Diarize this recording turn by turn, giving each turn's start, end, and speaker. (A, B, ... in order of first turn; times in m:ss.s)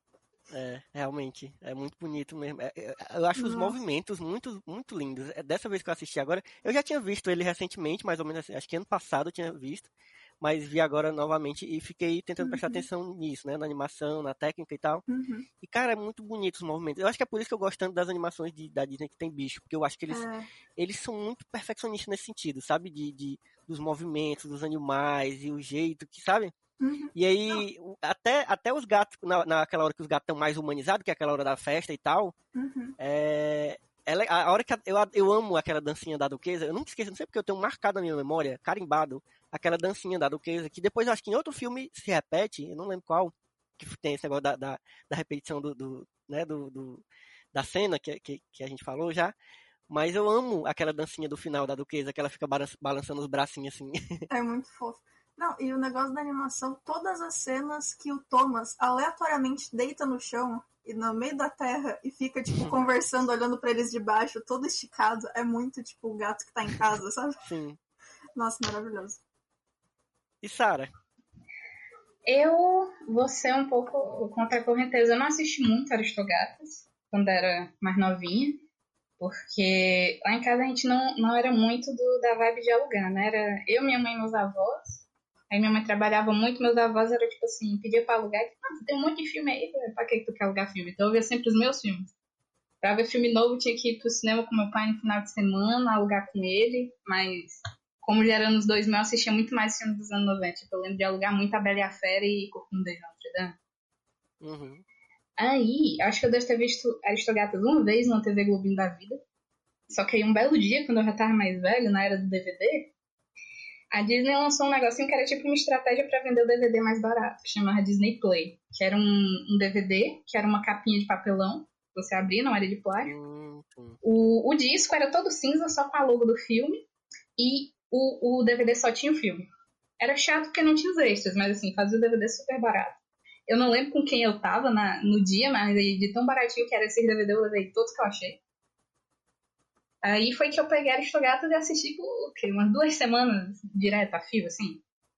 0:00.5-0:09.9 A
0:03.4-0:03.8 B
0:10.4-0:15.0 A
0:12.4-0:12.8 B
0:15.1-0:15.5 B
0:15.6-0:20.2 A
0:20.1-0:20.5 B
0:20.8-0:26.5 A
0:26.8-0:27.6 B
0:27.1-0:32.3 A
0:32.5-0:33.0 B
0:33.0-0:49.3 A
0:49.9-0:54.3 A
0:54.3-1:07.4 B
1:02.6-1:02.8 A
1:07.4-1:07.8 A
1:08.4-1:09.2 B
1:10.4-1:10.9 A
1:12.2-1:18.6 C
1:19.2-1:32.1 C
1:32.8-1:43.6 C
1:44.4-1:44.8 A
1:45.4-1:49.2 C
1:49.9-1:52.9 C
1:53.9-2:03.1 C
2:03.0-2:04.0 A
2:04.0-2:06.8 C
2:07.4-2:09.5 C
2:10.0-2:18.4 C
2:20.0-2:24.8 C